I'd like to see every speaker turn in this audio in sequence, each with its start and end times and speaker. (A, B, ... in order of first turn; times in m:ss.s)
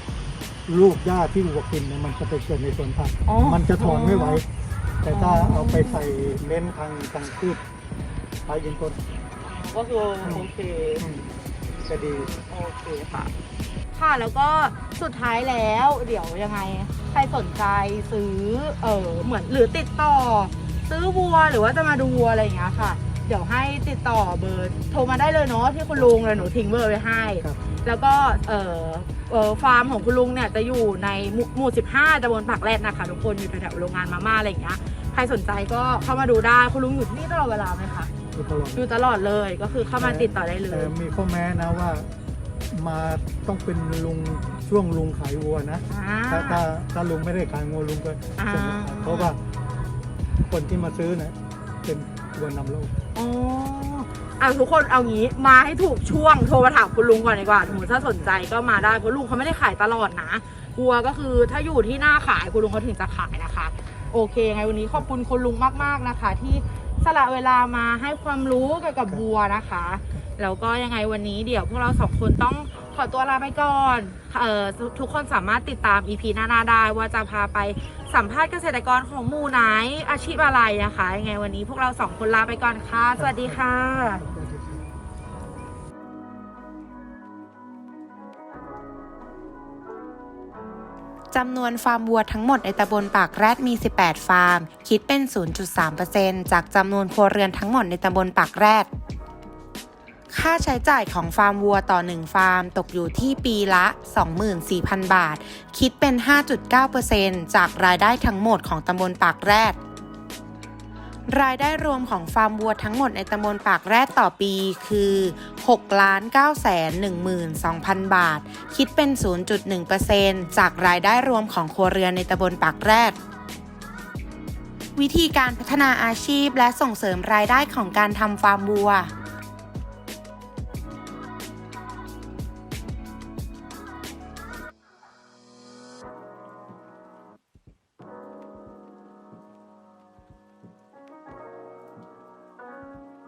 0:00.7-0:04.4 A
0:03.2-0:04.4 B
0:05.0-0:07.6 A
0:05.1-0:06.1 B
0:08.4-0:09.0 A
0:09.4-0:11.0 B
0:10.2-0:10.5 A
0:11.0-0:11.3 A
0:11.9-0:12.3 A
0:12.2-0:13.3 B
0:13.9-0:38.1 B
0:25.9-0:26.5 A
0:36.0-0:36.3 A
0:38.3-0:38.8 A
0:38.7-0:40.9 B
0:40.0-0:42.1 A
0:42.7-0:49.4 A
0:45.9-0:46.6 B
0:48.4-0:49.4 B
0:50.5-0:52.9 A
0:53.1-1:24.2 B
1:23.2-1:24.8 A
1:31.3-1:38.9 C
1:40.3-1:49.8 C
1:51.3-2:03.2 C
2:05.0-2:09.1 C